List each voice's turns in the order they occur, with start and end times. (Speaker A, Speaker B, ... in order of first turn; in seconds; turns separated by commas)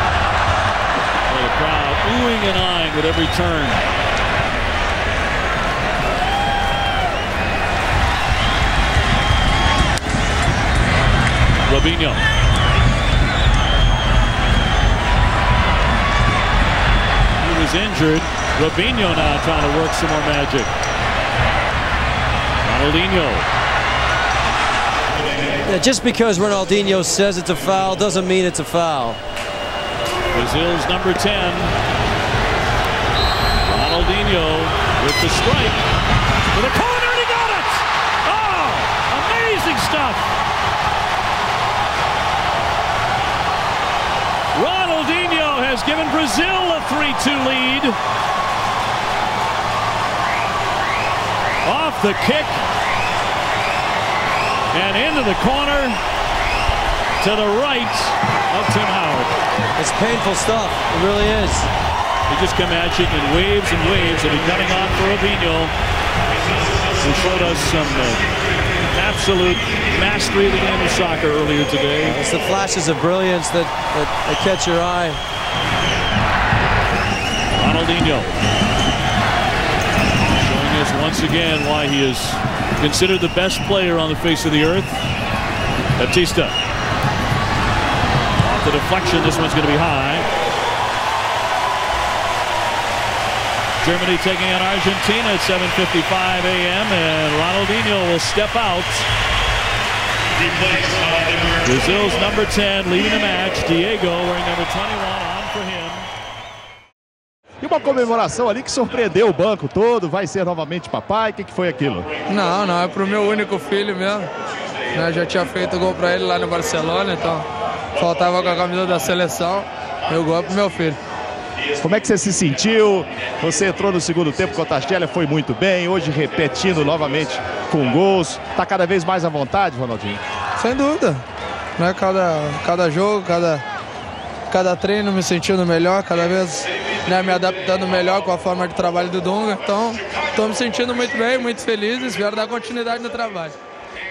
Speaker A: 1.3-3.8, Speaker A: 11.7-12.2, Speaker A: 17.4-20.7, Speaker A: 22.6-23.5, Speaker B: 25.7-29.2, Speaker A: 30.3-31.8, Speaker A: 33.6-35.8, Speaker A: 36.5-40.3, Speaker A: 44.5-48.0, Speaker A: 51.6-52.7, Speaker A: 54.7-56.0, Speaker A: 57.2-59.3, Speaker B: 59.8-61.7, Speaker A: 62.3-65.7, Speaker A: 67.0-68.2, Speaker A: 68.9-72.2, Speaker B: 72.0-75.2, Speaker A: 77.6-78.3, Speaker A: 80.4-85.0, Speaker A: 86.0-86.5, Speaker A: 88.4-90.3, Speaker A: 93.8-99.1, Speaker A: 101.5-106.1, Speaker C: 107.6-112.1, Speaker D: 112.3-114.3, Speaker D: 114.9-121.0, Speaker C: 121.8-130.2, Speaker D: 130.6-131.2, Speaker D: 131.8-133.6, Speaker D: 134.5-143.6